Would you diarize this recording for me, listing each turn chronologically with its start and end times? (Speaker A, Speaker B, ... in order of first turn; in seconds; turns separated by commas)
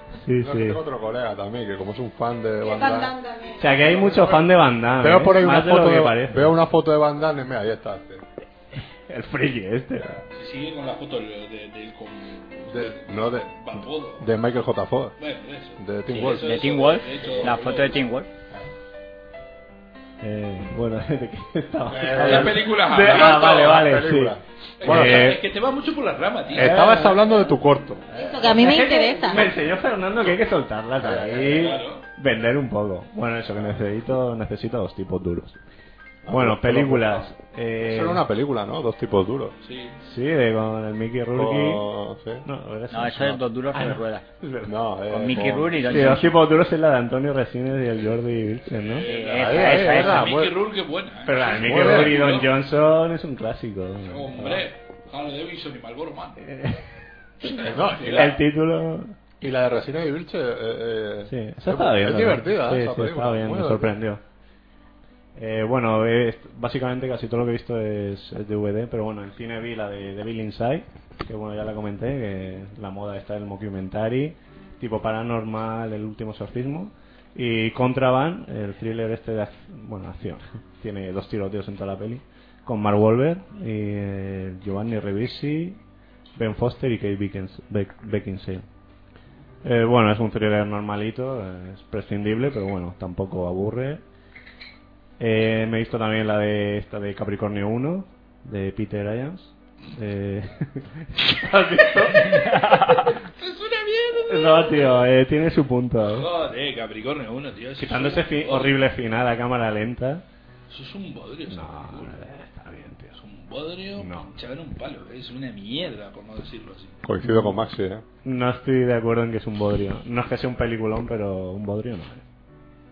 Speaker A: 0.2-0.8, Speaker B: 0.4-3.1, Speaker C: 2.6-4.2, Speaker A: 3.6-6.6, Speaker D: 4.0-4.4, Speaker B: 5.0-8.2, Speaker A: 9.1-10.2, Speaker D: 10.3-14.3, Speaker B: 12.7-15.2, Speaker D: 15.2-18.0, Speaker B: 15.8-16.7, Speaker E: 16.1-18.3, Speaker B: 17.2-17.5, Speaker A: 20.2-25.4, Speaker B: 21.9-25.4, Speaker D: 22.1-23.9, Speaker D: 24.8-26.8, Speaker B: 26.5-28.0, Speaker A: 26.6-27.2, Speaker A: 28.1-35.6, Speaker C: 28.1-29.5, Speaker B: 31.0-31.7, Speaker D: 31.3-32.0, Speaker B: 36.2-37.3, Speaker A: 36.3-38.2, Speaker B: 37.8-39.5, Speaker D: 39.6-40.0, Speaker A: 40.0-41.9, Speaker B: 41.3-42.5, Speaker A: 42.5-44.7, Speaker E: 42.9-44.3, Speaker B: 44.6-46.3, Speaker E: 45.1-46.4, Speaker A: 45.3-49.1, Speaker D: 48.8-52.5, Speaker E: 49.0-50.3, Speaker B: 49.2-50.6, Speaker A: 49.6-50.1, Speaker A: 51.2-54.6, Speaker B: 51.6-52.2, Speaker D: 54.1-56.5, Speaker A: 56.4-56.8, Speaker A: 57.4-59.2, Speaker D: 57.5-58.4, Speaker B: 57.7-58.4, Speaker B: 59.4-64.0, Speaker A: 61.3-64.2, Speaker A: 65.4-85.8, Speaker A: 86.3-88.6, Speaker A: 89.6-94.0, Speaker A: 95.2-102.3, Speaker D: 102.1-102.4, Speaker E: 102.5-102.9, Speaker D: 103.3-105.0, Speaker A: 104.3-106.3, Speaker D: 106.0-108.8, Speaker A: 107.8-110.2, Speaker D: 110.7-112.2, Speaker A: 111.5-113.2, Speaker D: 113.2-117.0, Speaker A: 114.0-114.3, Speaker B: 117.0-118.0, Speaker A: 117.2-117.5, Speaker A: 118.2-122.2